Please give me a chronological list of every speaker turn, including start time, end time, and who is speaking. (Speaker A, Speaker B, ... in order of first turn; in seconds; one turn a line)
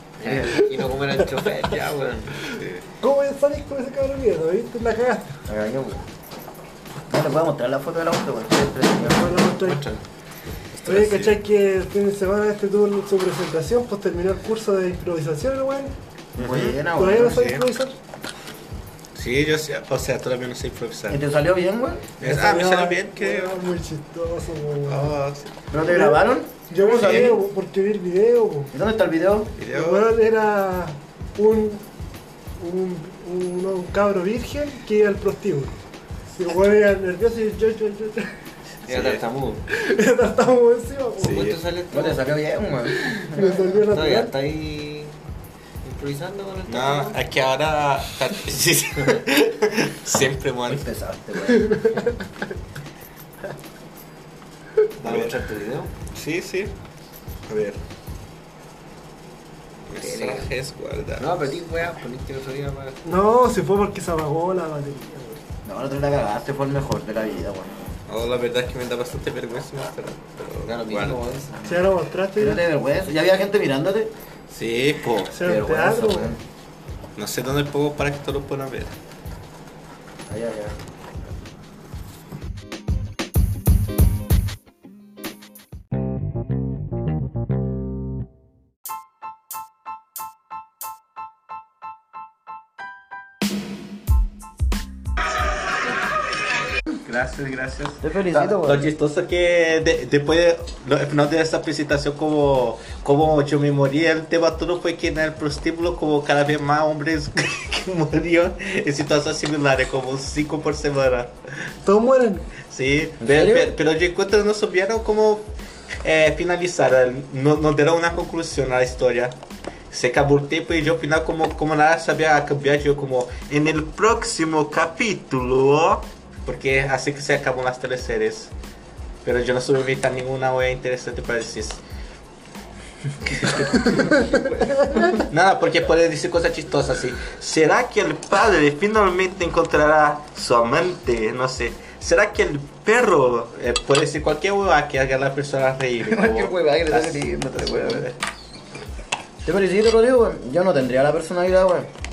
Speaker A: 0.2-2.5
Speaker B: 0.2-0.6
Speaker C: 2.5-2.8
Speaker D: 3.0-5.4
Speaker B: 5.5-6.1
Speaker B: 7.1-9.3
Speaker D: 9.0-9.8
Speaker A: 9.6-10.0
Speaker C: 10.7-11.4
Speaker D: 10.9-15.9
Speaker C: 16.4-17.7
Speaker B: 16.4-17.5
Speaker D: 16.9-17.9
Speaker C: 19.1-21.2
Speaker B: 21.1-22.1
Speaker C: 22.2-23.6
Speaker D: 22.2-25.2
Speaker C: 24.9-25.6
Speaker B: 25.7-27.4
Speaker D: 25.8-28.7
Speaker C: 26.9-27.4
Speaker B: 28.7-29.5
Speaker C: 29.6-30.1
Speaker D: 29.7-31.8
Speaker D: 32.6-35.8
Speaker D: 36.3-38.3
Speaker C: 38.9-39.2
Speaker A: 38.9-39.6
Speaker D: 39.7-41.5
Speaker C: 41.2-41.6
Speaker A: 41.2-42.3
Speaker B: 41.9-43.7
Speaker D: 43.1-44.3
Speaker A: 43.7-45.1
Speaker A: 45.8-47.2
Speaker C: 46.7-50.8
Speaker B: 50.7-51.8
Speaker D: 51.5-52.1
Speaker C: 55.0-55.4
Speaker A: 55.0-55.9
Speaker C: 56.1-56.7
Speaker C: 57.5-57.8
Speaker C: 59.9-61.4
Speaker A: 60.0-60.5
Speaker A: 61.2-63.0
Speaker D: 63.0-65.4
Speaker B: 65.7-67.7
Speaker C: 68.1-71.2
Speaker A: 70.6-71.7
Speaker D: 71.6-72.6
Speaker B: 72.4-74.1
Speaker C: 74.5-75.3
Speaker D: 75.3-76.3
Speaker B: 75.3-76.4
Speaker C: 77.2-78.9
Speaker B: 80.3-80.8
Speaker C: 97.0-111.3
Speaker B: 98.0-98.9
Speaker D: 111.8-112.5
Speaker C: 112.7-115.5
Speaker B: 113.2-113.7
Speaker C: 116.0-119.3
Speaker C: 119.9-128.5
Speaker C: 129.2-131.8
Speaker C: 133.3-148.2
Speaker B: 146.0-148.1
Speaker B: 149.4-151.9